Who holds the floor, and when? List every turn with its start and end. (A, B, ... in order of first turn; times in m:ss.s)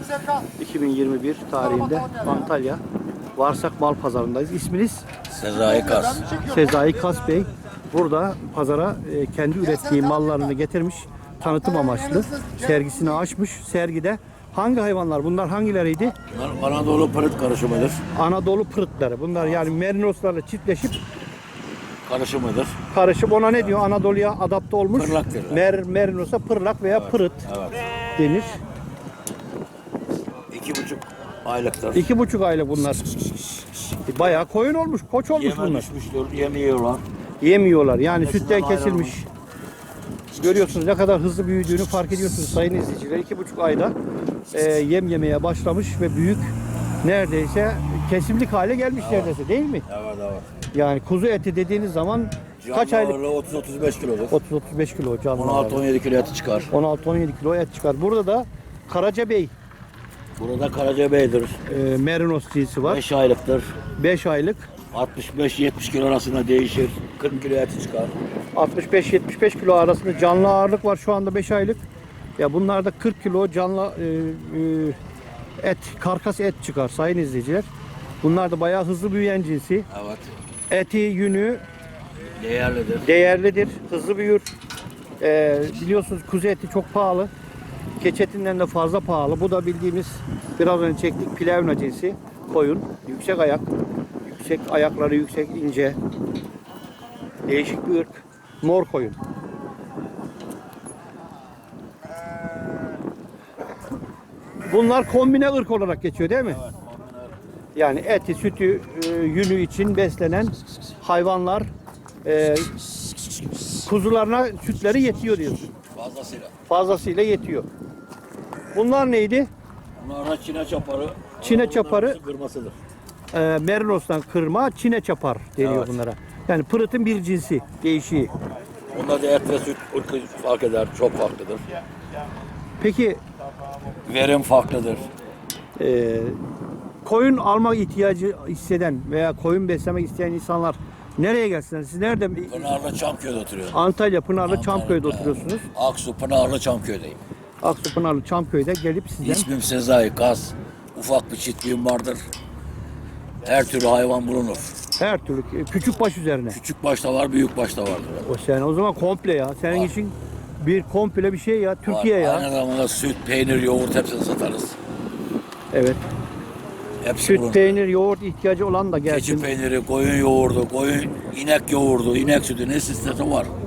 0:00.5-0:02.8 A
0:03.4-0:05.0 A
0:05.3-0:06.2 B
0:06.3-0:16.2 A
0:16.3-0:18.0 B
0:18.1-0:21.0 A
0:19.4-0:19.6 B
0:22.0-0:22.7 B
0:22.9-0:27.4 A
0:24.9-0:25.6 B
0:26.9-0:27.8 B
0:28.2-0:28.6 A
0:30.5-0:32.0 B
0:31.9-0:33.0 A
0:34.1-0:35.9 A
0:35.3-0:37.0 B
0:37.4-0:39.2 A
0:38.1-0:39.2 B
0:40.4-0:43.9 A
0:44.5-0:46.5 A
0:47.0-0:49.8 A
0:49.0-0:49.3 B
0:49.8-0:50.5 B
0:50.7-0:53.2 A
0:52.6-0:54.3 B
0:54.3-0:55.8 A
0:55.4-0:56.7 B
0:56.7-0:59.5 A
1:00.4-1:01.6 B
1:01.6-1:03.0 A
1:02.8-1:03.7 B
1:04.0-1:04.7 A
1:04.9-1:08.1 B
1:08.5-1:11.8 A
1:12.4-1:15.0 A
1:15.6-1:17.7 A
1:18.2-1:19.9 A
1:19.9-1:20.3 B
1:20.7-1:21.6 A
1:22.4-1:23.1 B
1:23.0-1:24.5 A
1:25.2-1:27.3 A
1:28.0-1:33.7 A
1:34.2-1:36.0 A
1:37.5-1:39.2 A
1:44.7-1:46.6 A
1:46.5-1:47.3 B
1:47.7-1:51.7 A
1:52.2-1:52.7 A
1:53.8-1:55.7 A
1:55.9-1:56.5 B
1:56.7-1:57.6 A
1:58.7-1:59.5 A
2:00.0-2:02.8 B
2:01.4-2:02.2 A
2:03.3-2:08.3 A
2:05.6-2:06.0 B
2:08.9-2:11.6 B
2:12.8-2:13.2 A
2:14.0-2:15.1 B
2:15.8-2:16.4 A
2:17.0-2:22.7 A
2:22.4-2:23.8 B
2:23.7-2:25.7 A
2:24.4-2:27.2 B
2:27.6-2:29.5 A
2:29.2-2:32.2 B
2:33.4-2:34.8 B
2:35.0-2:36.6 A
2:36.5-2:38.2 B
2:38.2-2:42.5 A
2:41.8-2:44.8 B
2:45.7-2:46.0 A
2:47.0-2:47.8 B
2:47.2-2:49.5 A
2:49.1-2:53.5 B